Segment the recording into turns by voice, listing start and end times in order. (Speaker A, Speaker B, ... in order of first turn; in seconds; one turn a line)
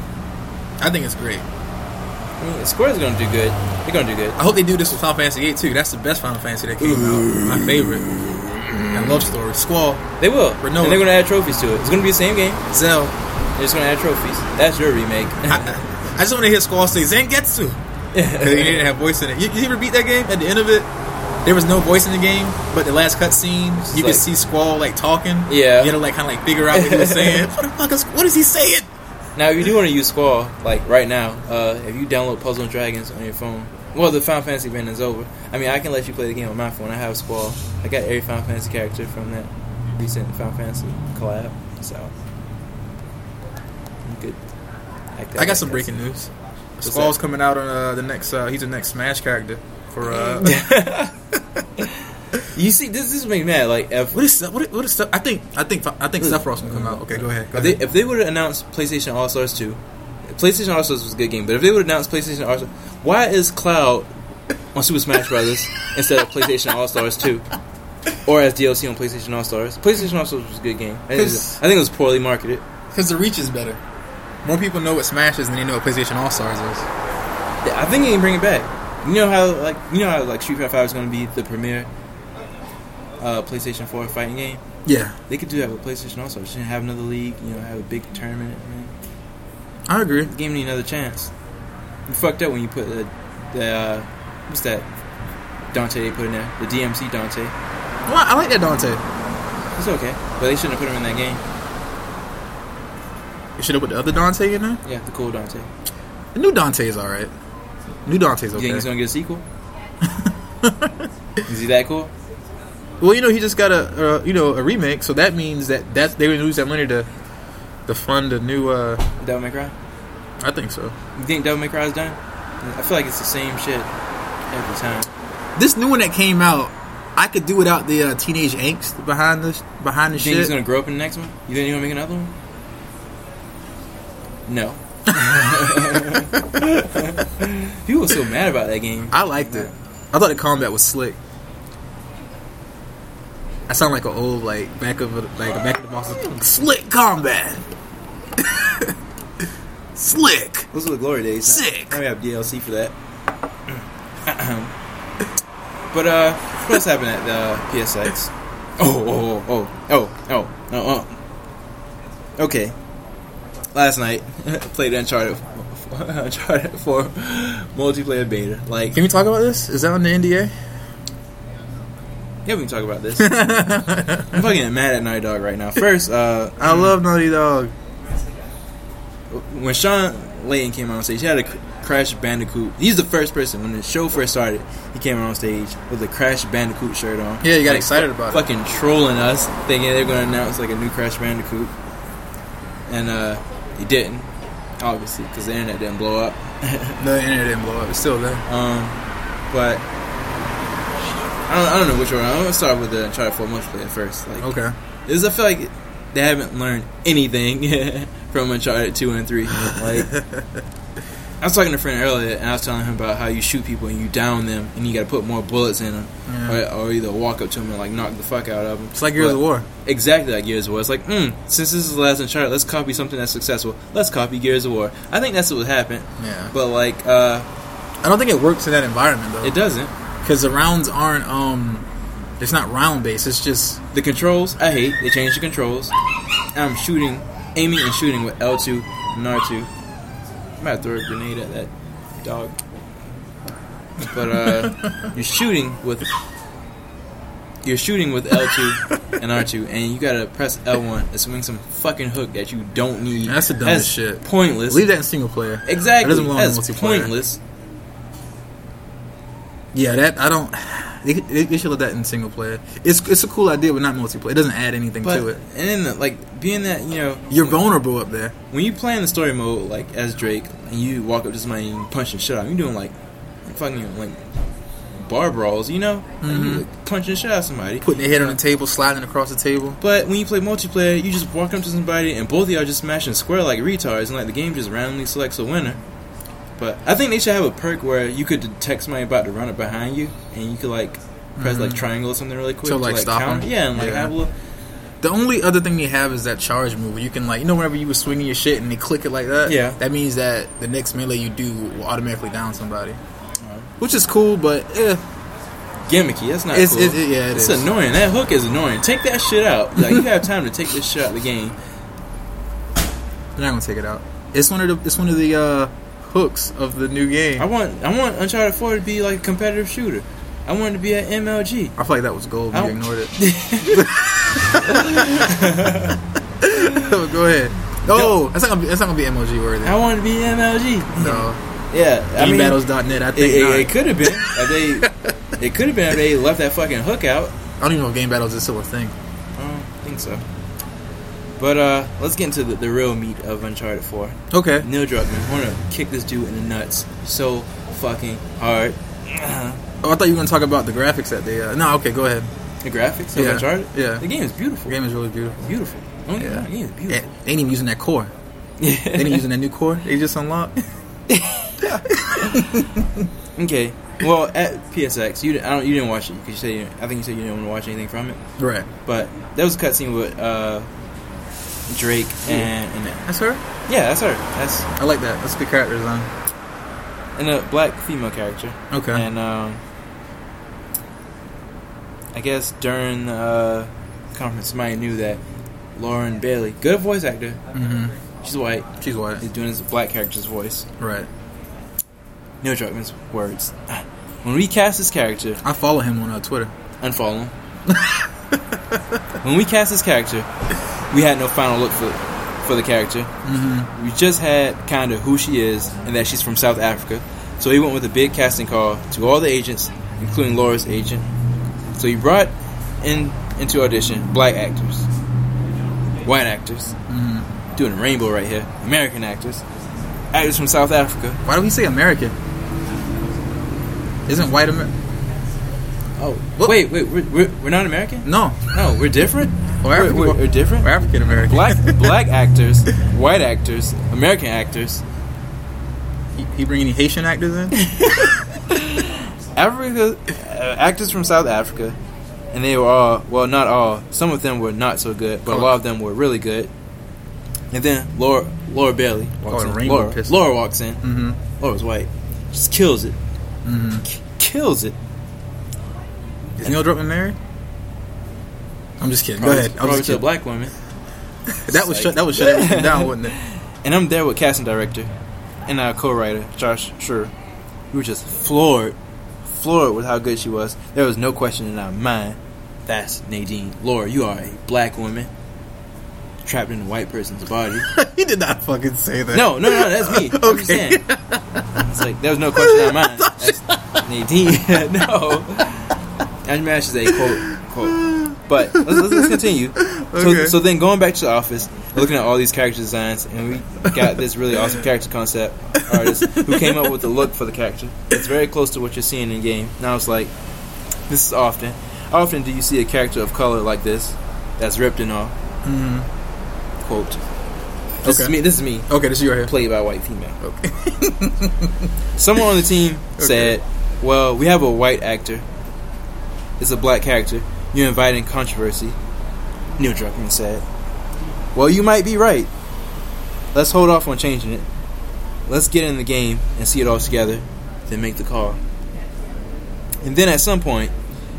Speaker A: 0.8-1.5
Speaker B: 2.4-4.4
Speaker A: 4.4-8.1
Speaker B: 6.8-8.9
Speaker A: 8.9-10.0
Speaker B: 10.2-12.6
Speaker A: 10.6-11.0
Speaker A: 12.7-13.1
Speaker B: 13.6-15.8
Speaker A: 15.5-20.9
Speaker B: 18.1-18.9
Speaker A: 21.4-28.9
Speaker B: 23.8-24.2
Speaker B: 25.5-25.9
Speaker B: 26.7-27.5
Speaker B: 29.4-42.1
Speaker B: 44.0-44.4
Speaker B: 45.1-46.0
Speaker A: 45.4-50.7
Speaker B: 46.8-47.1
Speaker B: 50.1-51.1
Speaker B: 51.8-54.2
Speaker A: 54.1-57.8
Speaker B: 56.2-64.1
Speaker B: 64.7-67.5
Speaker B: 68.2-72.6
Speaker A: 71.1-71.6
Speaker A: 72.9-73.8
Speaker A: 74.4-76.9
Speaker B: 77.6-81.9
Speaker B: 83.2-84.6
Speaker A: 84.8-85.2
Speaker B: 85.3-88.9
Speaker A: 89.9-90.3
Speaker B: 90.3-91.3
Speaker B: 92.1-94.9
Speaker B: 95.7-97.5
Speaker A: 98.1-99.0
Speaker B: 99.8-101.4
Speaker A: 103.6-104.8
Speaker B: 104.8-105.7
Speaker A: 106.3-107.3
Speaker A: 108.0-108.9
Speaker B: 108.5-109.4
Speaker A: 110.0-111.1
Speaker B: 111.5-112.1
Speaker A: 113.0-117.1
Speaker A: 117.9-119.0
Speaker B: 119.2-119.7
Speaker A: 120.4-120.9
Speaker B: 121.2-123.9
Speaker B: 124.5-125.1
Speaker A: 125.5-130.5
Speaker B: 130.1-132.3
Speaker B: 134.5-139.7
Speaker A: 135.1-135.8
Speaker A: 139.1-141.2
Speaker A: 143.7-147.7
Speaker A: 148.4-148.9
Speaker A: 149.9-150.7
Speaker B: 150.7-152.9
Speaker A: 151.4-152.0
Speaker B: 154.2-154.7
Speaker B: 155.9-161.2
Speaker B: 162.4-162.7
Speaker B: 163.7-169.0
Speaker A: 168.9-170.5
Speaker B: 172.4-173.5
Speaker A: 173.2-174.4
Speaker B: 174.3-176.9
Speaker A: 176.6-177.7
Speaker B: 179.3-191.7
Speaker A: 187.4-188.4
Speaker B: 192.9-194.3
Speaker B: 194.8-197.0
Speaker A: 197.0-198.4
Speaker B: 198.4-199.0
Speaker B: 199.5-199.8
Speaker B: 201.5-204.5
Speaker A: 204.4-204.7
Speaker B: 205.1-210.1
Speaker A: 209.6-210.6
Speaker B: 211.4-227.5
Speaker A: 216.3-216.6
Speaker A: 218.9-219.7
Speaker A: 226.2-226.5
Speaker A: 228.0-229.6
Speaker B: 229.4-229.9
Speaker A: 230.2-231.8
Speaker A: 232.4-233.8
Speaker B: 233.9-235.9
Speaker B: 236.5-239.7
Speaker B: 240.6-241.7
Speaker B: 242.2-242.6
Speaker B: 244.0-246.1
Speaker A: 244.4-245.1
Speaker B: 247.6-254.8
Speaker A: 253.2-257.1
Speaker B: 255.6-257.4
Speaker A: 259.7-265.4
Speaker B: 265.0-267.6
Speaker A: 267.3-268.3
Speaker B: 268.5-272.9
Speaker B: 273.4-274.2
Speaker B: 274.9-278.4
Speaker A: 276.2-276.6
Speaker A: 277.8-279.8
Speaker B: 279.8-285.8
Speaker B: 286.6-294.3
Speaker A: 291.4-291.8
Speaker A: 292.6-294.1
Speaker A: 295.0-303.0
Speaker B: 299.4-299.8
Speaker B: 303.4-303.7
Speaker A: 303.8-305.0
Speaker B: 305.9-311.5
Speaker A: 306.5-307.7
Speaker A: 313.4-317.5
Speaker B: 317.4-321.7
Speaker A: 321.8-325.3
Speaker B: 322.5-323.9
Speaker B: 324.5-326.0
Speaker A: 326.4-329.8
Speaker B: 326.5-326.9
Speaker B: 327.9-328.2
Speaker B: 329.6-332.6
Speaker A: 330.9-331.4
Speaker A: 332.2-335.1
Speaker B: 333.1-337.3
Speaker A: 337.6-338.9
Speaker B: 339.4-340.2
Speaker B: 341.4-349.6
Speaker A: 344.3-344.7
Speaker A: 349.8-352.3
Speaker B: 352.6-354.8
Speaker A: 353.1-354.1
Speaker A: 354.7-355.4
Speaker B: 355.4-357.0
Speaker A: 356.2-358.1
Speaker B: 358.6-359.2
Speaker A: 358.9-360.6
Speaker B: 361.1-362.6
Speaker A: 361.7-363.1
Speaker B: 363.4-368.2
Speaker A: 368.4-368.7
Speaker B: 368.9-370.7
Speaker B: 371.7-373.0
Speaker A: 373.1-373.4
Speaker B: 373.7-374.7
Speaker A: 374.8-376.1
Speaker B: 377.1-379.6
Speaker A: 378.7-379.1
Speaker B: 382.1-385.2
Speaker B: 385.8-387.4
Speaker A: 387.5-387.9
Speaker B: 388.2-388.7
Speaker A: 388.8-389.2
Speaker B: 389.2-390.7
Speaker A: 390.8-391.1
Speaker B: 392.4-395.4
Speaker A: 395.4-396.5
Speaker B: 396.8-397.3
Speaker A: 397.7-398.8
Speaker B: 399.2-400.3
Speaker B: 400.9-403.1
Speaker A: 403.2-403.7
Speaker B: 403.7-411.1
Speaker B: 411.8-414.9
Speaker B: 416.0-416.7
Speaker A: 416.9-417.3
Speaker B: 417.6-419.4
Speaker B: 420.1-421.2
Speaker A: 421.2-422.1
Speaker A: 424.1-424.7
Speaker B: 426.0-430.7
Speaker A: 428.0-428.5
Speaker A: 429.6-431.9
Speaker B: 431.3-434.8
Speaker A: 436.1-438.0
Speaker B: 437.5-441.8
Speaker B: 442.3-446.5
Speaker B: 447.5-450.9
Speaker A: 449.2-450.2
Speaker A: 450.8-451.2
Speaker B: 451.4-453.0
Speaker A: 453.4-453.8
Speaker B: 453.9-454.8
Speaker A: 456.4-457.2
Speaker A: 458.8-460.0
Speaker B: 459.2-460.5
Speaker A: 461.3-463.2
Speaker B: 461.5-464.9
Speaker B: 465.5-467.1
Speaker B: 467.7-475.1
Speaker B: 476.2-477.7
Speaker A: 477.7-481.4
Speaker B: 479.1-480.8
Speaker B: 481.6-500.1
Speaker A: 482.4-483.6
Speaker A: 486.9-490.4
Speaker A: 495.7-496.7
Speaker B: 500.9-505.1
Speaker A: 505.4-505.9
Speaker B: 506.6-507.0
Speaker B: 507.8-508.7
Speaker A: 507.8-508.1
Speaker A: 508.7-509.3
Speaker B: 509.2-510.2
Speaker A: 510.2-511.7
Speaker B: 512.0-515.2
Speaker A: 513.0-513.3
Speaker B: 516.4-518.8
Speaker B: 519.6-520.4
Speaker B: 521.3-522.3
Speaker B: 523.3-524.5
Speaker B: 525.3-528.4
Speaker B: 529.8-530.7